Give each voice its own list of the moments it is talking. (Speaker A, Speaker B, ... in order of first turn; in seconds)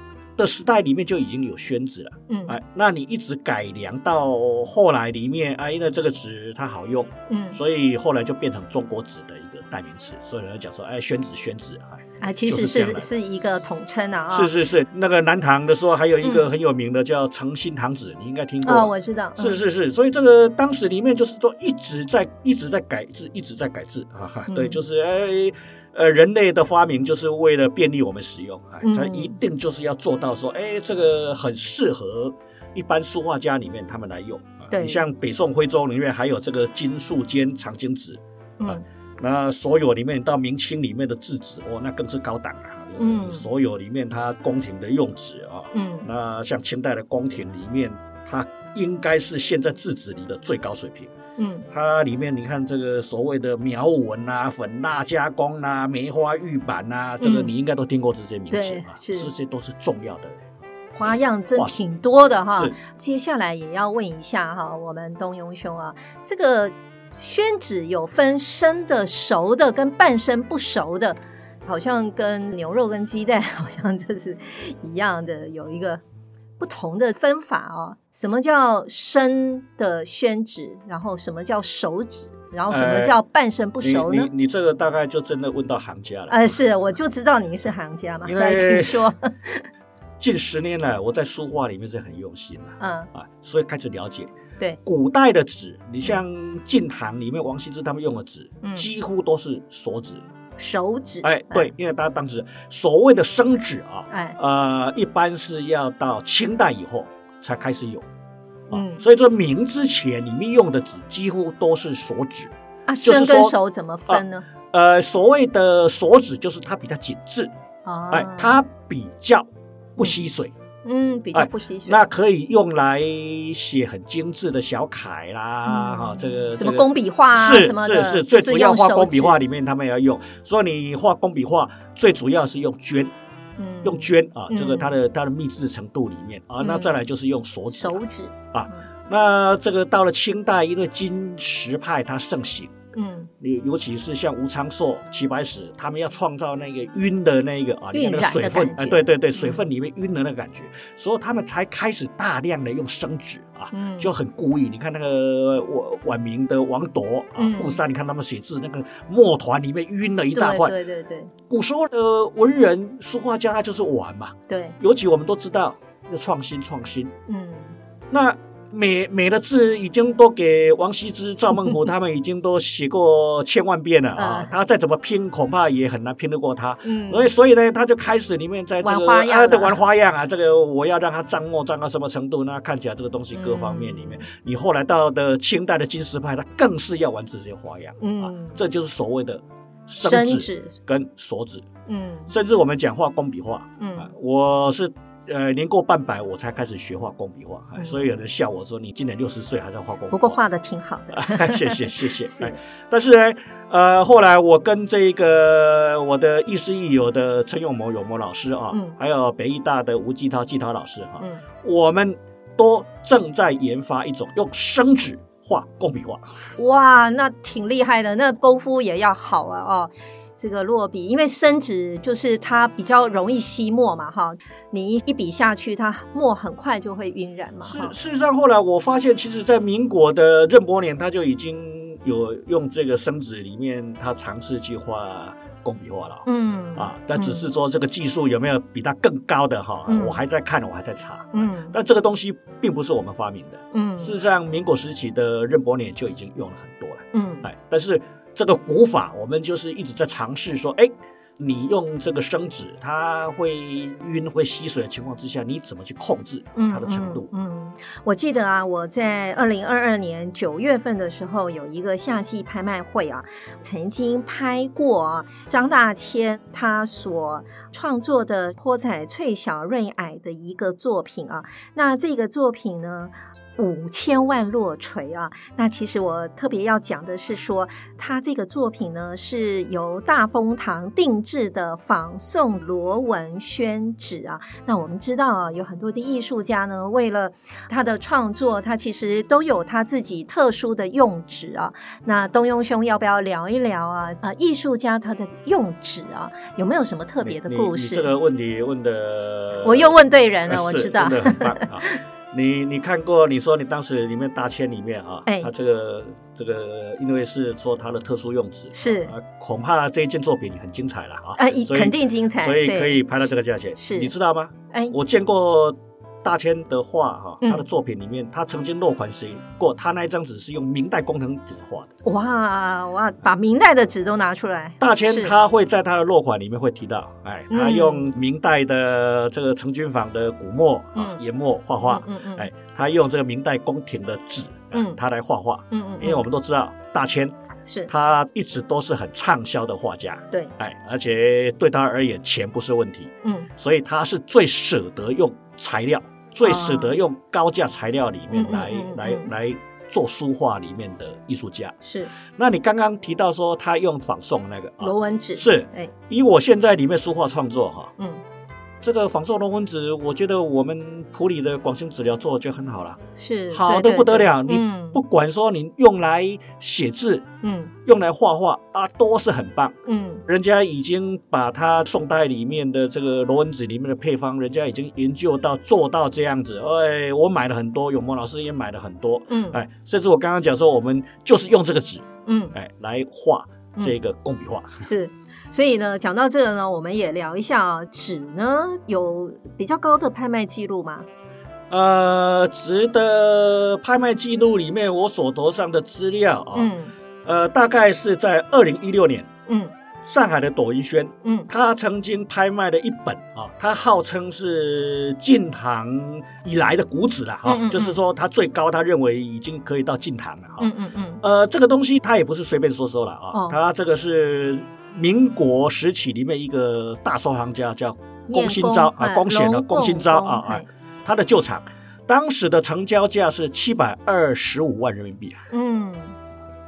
Speaker A: 0.4-13.1, 14.3-51.1, 51.7-60.4, 82.7-83.2, 83.8-86.5, 88.2-89.1, 90.2-94.3, 94.8-100.2, 101.2-108.0, 108.7-112.5, 113.0-113.5, 114.1-117.5, 118.1-120.5, 121.3-133.1, 133.8-142.7, 143.4-160.8, 161.5-167.1, 168.1-191.7, 192.3-200.4, 201.1-216.5, 227.6-236.2, 236.8-257.3, 297.2-299.9, 300.5-321.9, 324.8-337.3, 337.9-351.8, 352.3-357.9, 358.8-363.0, 363.5-367.2, 367.8-384.8, 391.7-396.7, 397.2-399.3, 400.0-410.7, 411.2-425.5
Speaker B: 2.3-2.5, 7.3-7.6, 12.2-14.5, 16.2-16.5, 18.6-19.6, 24.5-24.8, 28.8-29.4, 34.7-35.0, 43.0-43.4, 45.7-46.1, 51.4-51.6, 57.2-57.5, 58.5-59.3, 61.0-76.0, 76.6-84.3, 86.3-89.7, 92.8-93.1, 98.6-98.9, 100.6-101.7, 104.1-104.4, 108.7-109.0, 112.9-114.5, 117.8-118.6, 120.8-122.0, 125.7-129.4, 133.6-134.9, 136.6-136.9, 137.7-138.8, 142.9-143.3, 147.9-149.6, 153.7-154.1, 157.4-157.8, 160.3-161.3, 164.5-164.8, 167.3-167.7, 174.2-174.5, 176.8-177.3, 178.8-179.8, 183.3-184.2, 188.0-188.6, 190.0-190.8, 191.9-192.3, 193.8-194.1, 200.1-202.6, 216.6-227.9, 236.2-237.5, 239.9-240.2, 241.3-241.8, 243.7-244.1, 247.1-247.5, 256.6-298.1, 299.6-302.0, 308.7-309.1, 311.4-314.1, 322.0-325.3, 327.5-328.1, 330.9-331.2, 331.8-332.5, 334.7-335.0, 335.7-336.2, 343.2-343.5, 346.4-347.0, 348.3-349.3, 351.8-352.1, 354.8-355.9, 363.2-365.0, 367.4-367.7, 369.9-370.2, 379.3-379.6, 382.2-382.5, 384.8-391.1, 396.5-396.9, 399.5-399.7, 401.2-401.5, 407.4-408.0, 410.6-411.2, 418.3-420.6, 425.5-426.2